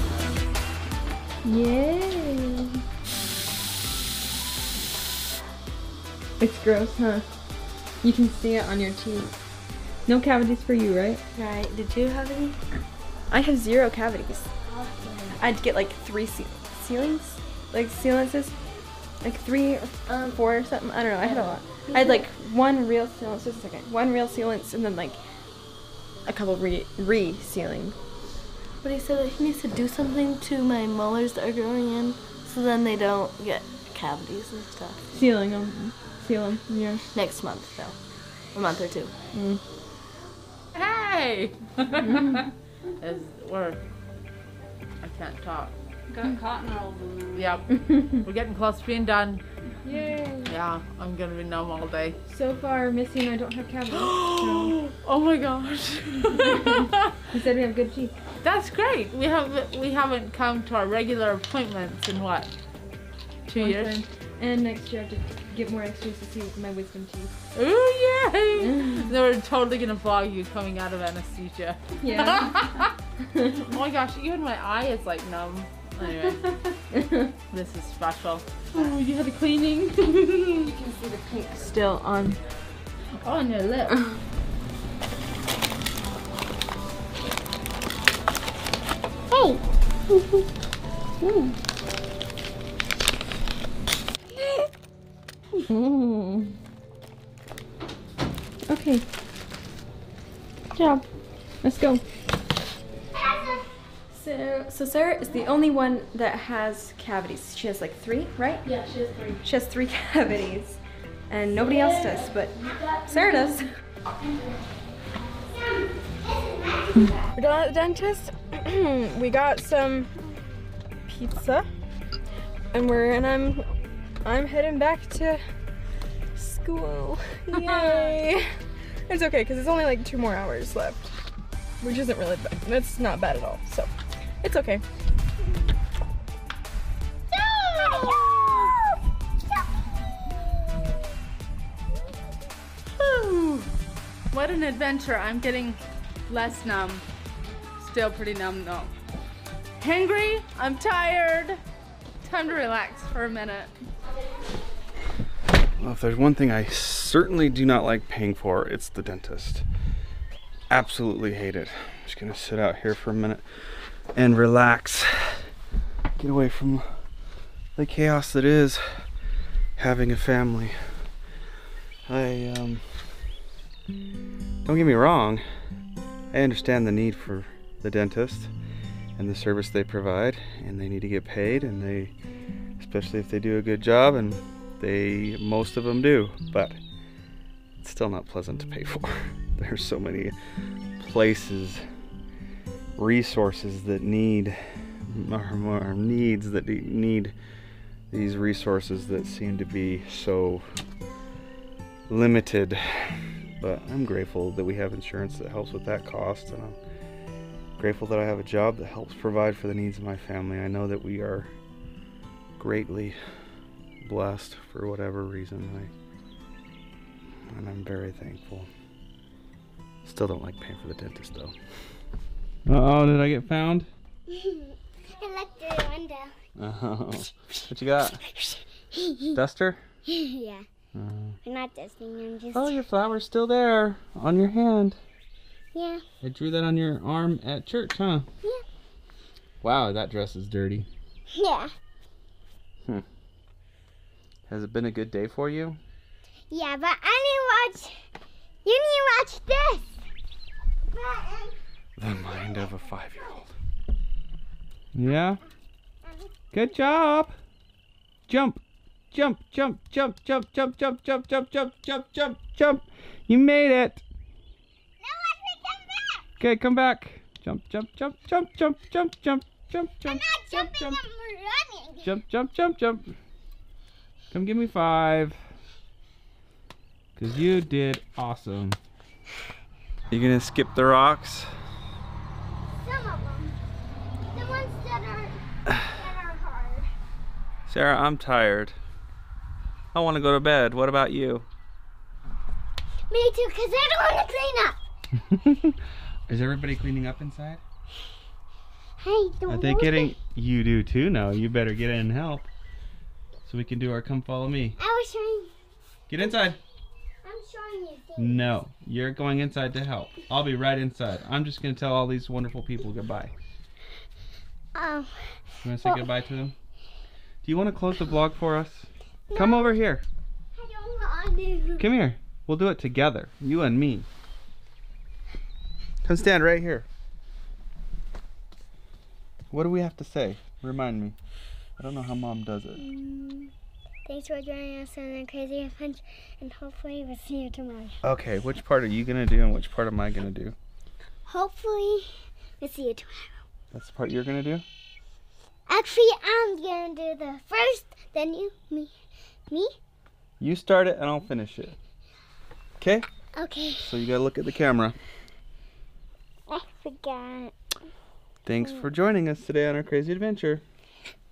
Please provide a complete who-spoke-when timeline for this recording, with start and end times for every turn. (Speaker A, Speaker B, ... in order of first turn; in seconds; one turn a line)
Speaker A: 1.4-2.8
Speaker A: 6.4-7.3
Speaker A: 8.0-9.3
Speaker A: 10.1-11.2
Speaker B: 11.3-12.6
Speaker A: 13.3-14.5
Speaker B: 14.7-15.4
Speaker A: 15.4-18.5
Speaker A: 19.2-25.2
Speaker B: 21.2-22.2
Speaker A: 26.3-28.0
Speaker B: 28.8-35.0
Speaker A: 35.1-37.0
Speaker B: 37.1-38.0
Speaker B: 38.5-39.1
Speaker A: 39.3-39.6
Speaker C: 40.7-42.4
Speaker A: 42.0-42.4
Speaker C: 43.0-43.8
Speaker C: 45.0-45.8
Speaker B: 46.1-47.3
Speaker C: 47.3-49.4
Speaker A: 49.9-50.5
Speaker C: 50.5-52.2
Speaker A: 52.3-54.8
Speaker C: 53.9-57.1
Speaker A: 56.4-58.1
Speaker C: 58.4-62.5
Speaker C: 63.5-64.1
Speaker A: 63.6-67.4
Speaker C: 67.5-72.9
Speaker A: 68.6-69.1
Speaker A: 72.0-73.8
Speaker C: 73.7-76.7
Speaker A: 76.9-77.3
Speaker C: 77.5-80.8
Speaker A: 80.6-82.4
Speaker C: 83.2-84.0
Speaker A: 83.9-84.2
Speaker D: 89.3-90.4
Speaker D: 94.4-94.7
Speaker A: 95.7-96.5
Speaker A: 98.7-99.0
Speaker A: 101.6-102.0
Speaker D: 103.1-103.7
Speaker A: 104.1-108.7
Speaker B: 108.7-109.4
Speaker A: 109.4-113.7
Speaker B: 111.6-112.1
Speaker B: 112.9-113.5
Speaker D: 115.4-117.3
Speaker A: 117.3-120.1
Speaker A: 121.1-121.7
Speaker A: 122.7-123.7
Speaker A: 124.2-125.4
Speaker A: 126.3-128.5
Speaker A: 129.1-131.2
Speaker A: 131.8-134.8
Speaker D: 137.6-138.3
Speaker C: 143.0-143.7
Speaker C: 144.3-147.1
Speaker C: 147.8-148.9
Speaker C: 149.8-151.6
Speaker C: 152.2-153.7
Speaker E: 155.8-159.7
Speaker E: 160.7-163.4
Speaker E: 164.2-165.5
Speaker E: 166.2-166.8
Speaker E: 167.8-168.8
Speaker E: 169.8-170.8
Speaker E: 172.1-172.8
Speaker E: 174.7-175.4
Speaker E: 176.3-178.5
Speaker E: 179.2-182.2
Speaker E: 182.8-186.8
Speaker E: 187.8-190.3
Speaker E: 191.0-191.8
Speaker E: 193.0-197.3
Speaker E: 198.1-200.6
Speaker E: 202.1-206.8
Speaker E: 207.8-211.5
Speaker E: 212.6-213.2
Speaker E: 214.0-215.9
Speaker E: 217.5-218.7
Speaker E: 220.0-221.6
Speaker E: 222.7-223.9
Speaker D: 224.3-226.3
Speaker E: 226.6-228.2
Speaker D: 228.9-229.3
Speaker E: 229.3-229.8
Speaker D: 230.1-230.7
Speaker E: 230.9-231.4
Speaker D: 231.4-232.8
Speaker E: 232.5-235.0
Speaker D: 235.7-236.0
Speaker E: 236.2-238.3
Speaker E: 239.6-240.9
Speaker D: 241.3-241.7
Speaker E: 244.5-245.8
Speaker D: 246.5-248.0
Speaker D: 248.7-250.0
Speaker D: 250.9-251.6
Speaker E: 252.0-253.5
Speaker E: 254.9-255.4
Speaker E: 256.5-257.4
Speaker E: 258.3-264.1
Speaker D: 265.0-266.3
Speaker E: 266.4-271.0
Speaker D: 270.0-272.1
Speaker E: 272.0-273.1
Speaker E: 274.3-275.4
Speaker E: 277.2-278.8
Speaker E: 280.1-281.5
Speaker D: 282.8-283.5
Speaker D: 284.3-286.9
Speaker E: 287.7-288.8
Speaker E: 289.9-291.5
Speaker D: 293.1-294.8
Speaker E: 295.3-295.7
Speaker E: 296.3-297.6
Speaker D: 299.0-300.2
Speaker E: 299.5-302.5
Speaker E: 303.5-304.8
Speaker D: 304.8-305.5
Speaker E: 306.1-306.6
Speaker D: 307.2-308.5
Speaker E: 308.2-313.3
Speaker D: 314.8-316.1
Speaker E: 315.6-316.6
Speaker E: 317.4-320.0
Speaker D: 319.3-319.8
Speaker D: 320.6-321.9
Speaker E: 321.8-324.1
Speaker E: 326.1-326.9
Speaker E: 329.5-331.2
Speaker E: 331.8-332.8
Speaker D: 332.8-333.5
Speaker D: 334.1-338.0
Speaker E: 338.0-340.6
Speaker D: 341.3-342.1
Speaker D: 342.6-343.3
Speaker E: 343.7-344.6
Speaker D: 345.7-348.9
Speaker E: 350.4-351.8
Speaker E: 352.8-353.1
Speaker D: 353.4-354.0
Speaker E: 353.8-355.0
Speaker D: 356.5-357.5
Speaker E: 358.5-360.6
Speaker D: 358.6-358.9